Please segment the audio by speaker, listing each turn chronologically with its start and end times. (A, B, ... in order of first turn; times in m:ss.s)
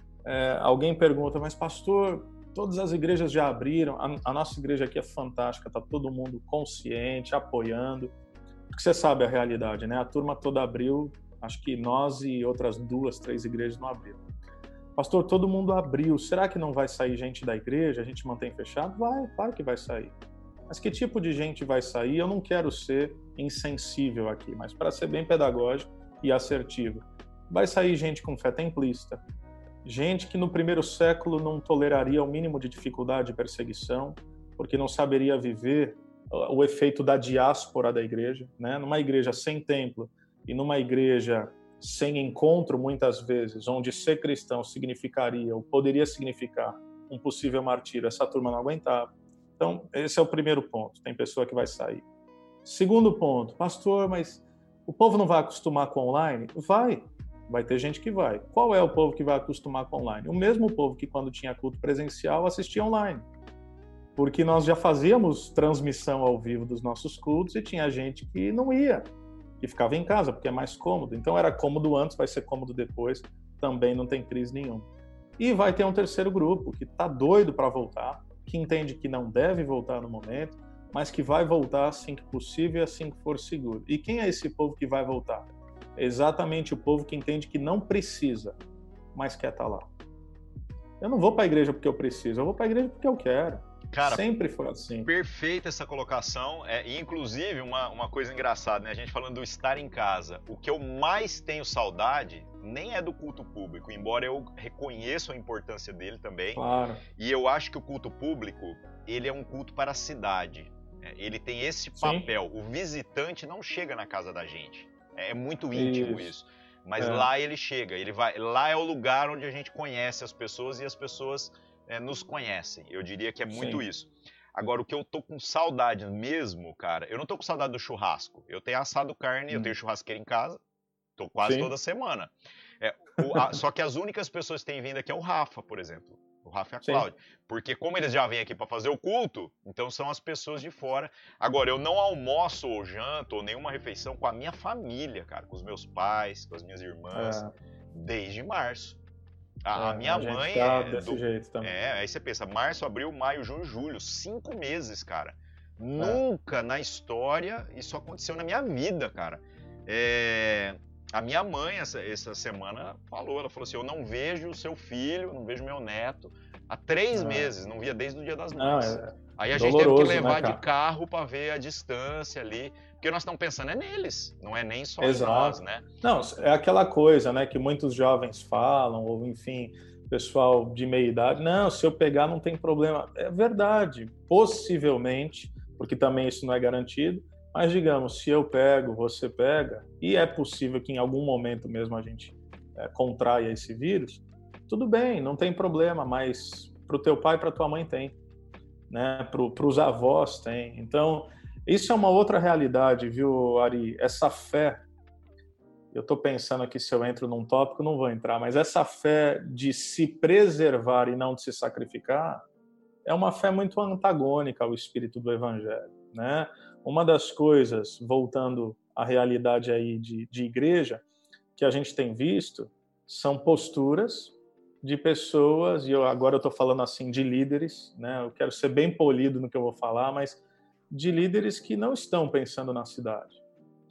0:00.2-0:08.1 A
0:08.7-0:14.2 A
0:15.0-0:20.1 A
0:20.7-0:29.2 A
0:29.8-0:52.0 A
0:52.6-1:03.2 A
1:04.2-1:09.0 A
1:09.6-1:14.9 A
1:15.4-1:28.6 A
1:29.1-1:29.9 A
1:31.0-1:35.1 A
1:33.9-1:34.2 B
1:35.0-1:46.6 B
1:46.5-1:47.0 A
1:47.2-2:10.6 B
1:52.0-1:52.3 A
1:55.7-1:56.3 A
1:57.0-1:57.3 A
2:03.5-2:03.8 A
2:11.2-2:29.0 B
2:11.4-2:11.7 A
2:27.1-2:27.5 A
2:29.6-2:55.8 B
2:29.7-2:31.7 A
2:47.1-2:47.5 A
2:48.6-2:50.6 A
2:55.0-3:18.2 A
3:18.9-3:24.9 A
3:25.9-3:32.4 A
3:33.0-3:41.0 A
3:41.6-3:53.4 A